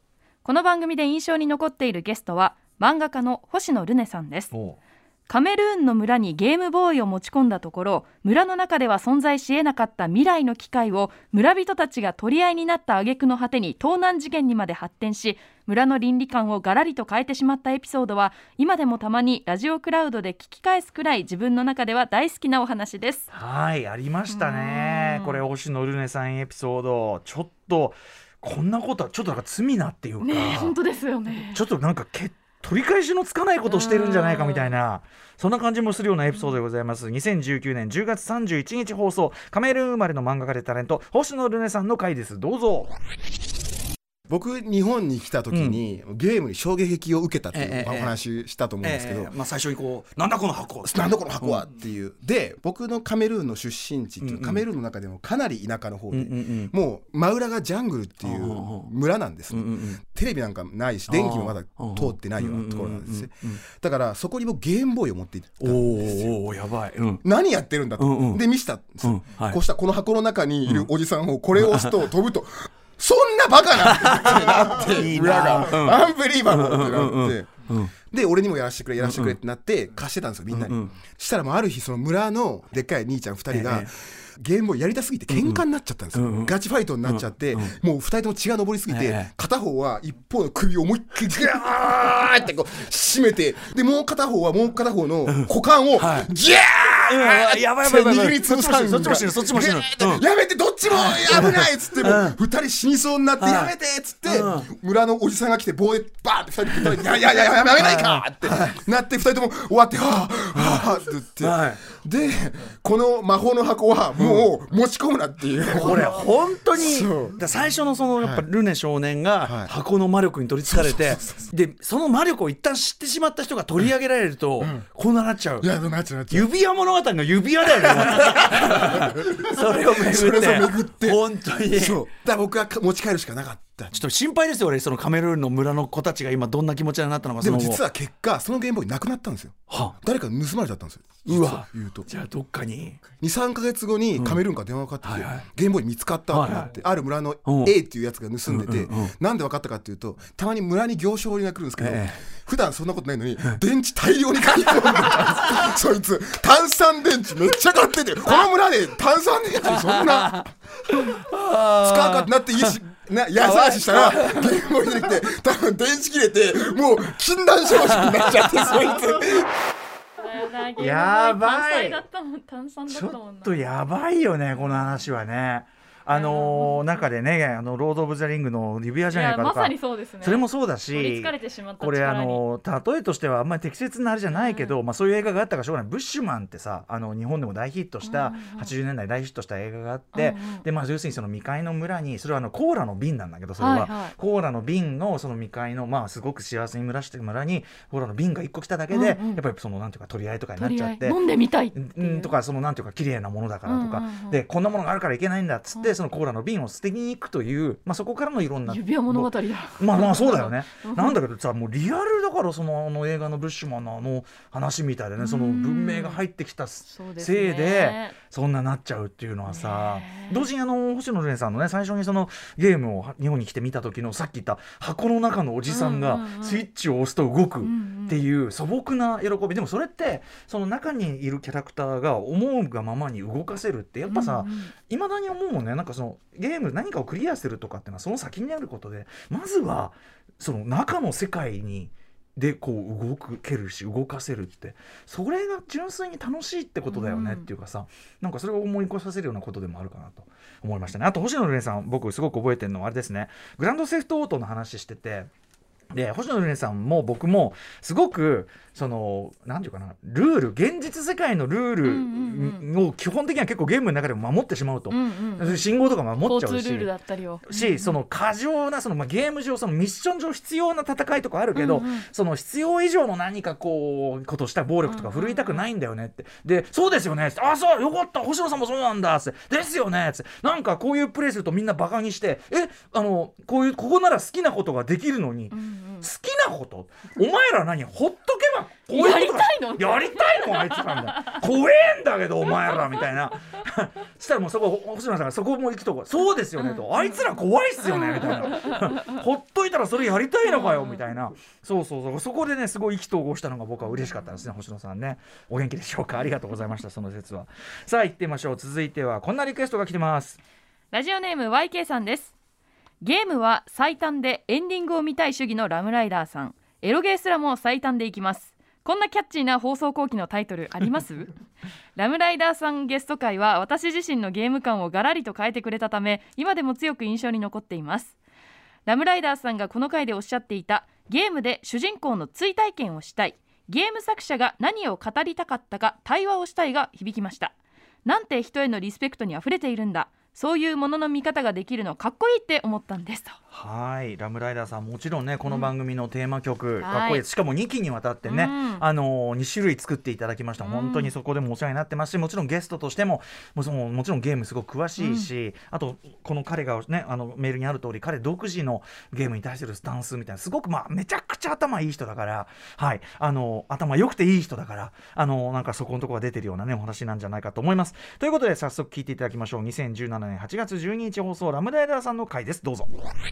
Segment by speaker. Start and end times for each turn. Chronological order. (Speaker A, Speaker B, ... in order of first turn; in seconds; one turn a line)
Speaker A: 0.4-4.5
Speaker B: 4.5-4.8
Speaker A: 5.3-23.3
Speaker B: 23.3-30.7
Speaker A: 24.3-25.4
Speaker A: 30.2-31.6
Speaker B: 31.5-42.9
Speaker A: 33.6-34.8
Speaker C: 44.3-49.3
Speaker D: 47.5-48.1
Speaker D: 48.8-51.7
Speaker C: 50.8-66.3
Speaker D: 54.2-54.6
Speaker D: 56.1-56.7
Speaker D: 58.2-58.9
Speaker D: 59.5-60.0
Speaker D: 61.1-63.6
Speaker D: 65.6-67.2
Speaker C: 67.2-117.4
Speaker D: 68.0-68.4
Speaker D: 69.0-69.6
Speaker D: 71.6-71.9
Speaker D: 74.0-77.9
Speaker D: 79.0-79.4
Speaker D: 80.5-80.9
Speaker D: 83.5-83.9
Speaker D: 85.3-85.6
Speaker D: 86.1-86.5
Speaker D: 87.0-87.7
Speaker D: 88.9-89.3
Speaker D: 96.0-96.3
Speaker B: 97.1-100.2
Speaker D: 101.1-102.3
Speaker D: 103.4-103.7
Speaker D: 104.3-104.7
Speaker D: 107.8-108.2
Speaker D: 111.4-111.7
Speaker B: 115.7-125.7
Speaker C: 118.2-118.5
Speaker C: 119.4-119.7
Speaker C: 120.6-121.5
Speaker C: 124.6-124.8
Speaker C: 125.6-126.5
Speaker D: 126.3-129.1
Speaker B: 127.2-128.8
Speaker C: 128.0-133.9
Speaker B: 129.5-130.7
Speaker D: 131.0-131.9
Speaker D: 133.9-137.8
Speaker B: 135.9-137.8
Speaker C: 137.4-142.1
Speaker D: 141.3-141.6
Speaker B: 142.1-143.0
Speaker C: 143.2-160.5
Speaker D: 145.0-145.4
Speaker D: 146.3-146.7
Speaker D: 147.4-147.7
Speaker D: 148.4-149.1
Speaker D: 151.8-152.1
Speaker D: 161.4-162.2
Speaker C: 161.8-169.5
Speaker A: 170.2-173.6
Speaker B: 170.8-172.0
Speaker B: 172.9-201.2
Speaker A: 176.1-176.9
Speaker A: 179.1-182.4
Speaker A: 184.3-184.8
Speaker A: 188.0-188.7
Speaker A: 190.1-190.7
Speaker A: 193.6-194.1
Speaker A: 198.9-199.4
Speaker A: 200.6-202.3
Speaker B: 201.7-255.3
Speaker A: 203.7-204.4
Speaker A: 208.7-211.2
Speaker A: 215.2-216.2
Speaker A: 216.8-218.2
Speaker A: 219.5-220.5
Speaker A: 225.7-226.6
Speaker A: 227.6-228.2
Speaker A: 234.1-234.7
Speaker A: 246.9-247.5
Speaker B: 255.9-266.9
Speaker A: 261.8-262.7
Speaker A: 264.9-265.6
Speaker A: 266.2-268.0
Speaker B: 267.5-310.4
Speaker A: 271.5-272.1
Speaker A: 274.8-275.6
Speaker A: 285.5-286.1
Speaker A: 288.9-291.4
Speaker A: 296.6-299.0
Speaker A: 300.4-301.0
Speaker A: 303.9-304.3
Speaker A: 310.9-312.3
Speaker A: 313.0-321.3
Speaker A: 321.9-328.1
Speaker A: 328.9-337.5
Speaker A: 338.0-343.4
Speaker B: 343.5-373.0
Speaker A: 346.8-347.2
Speaker A: 348.2-348.8
Speaker A: 350.6-351.1
Speaker A: 355.0-355.3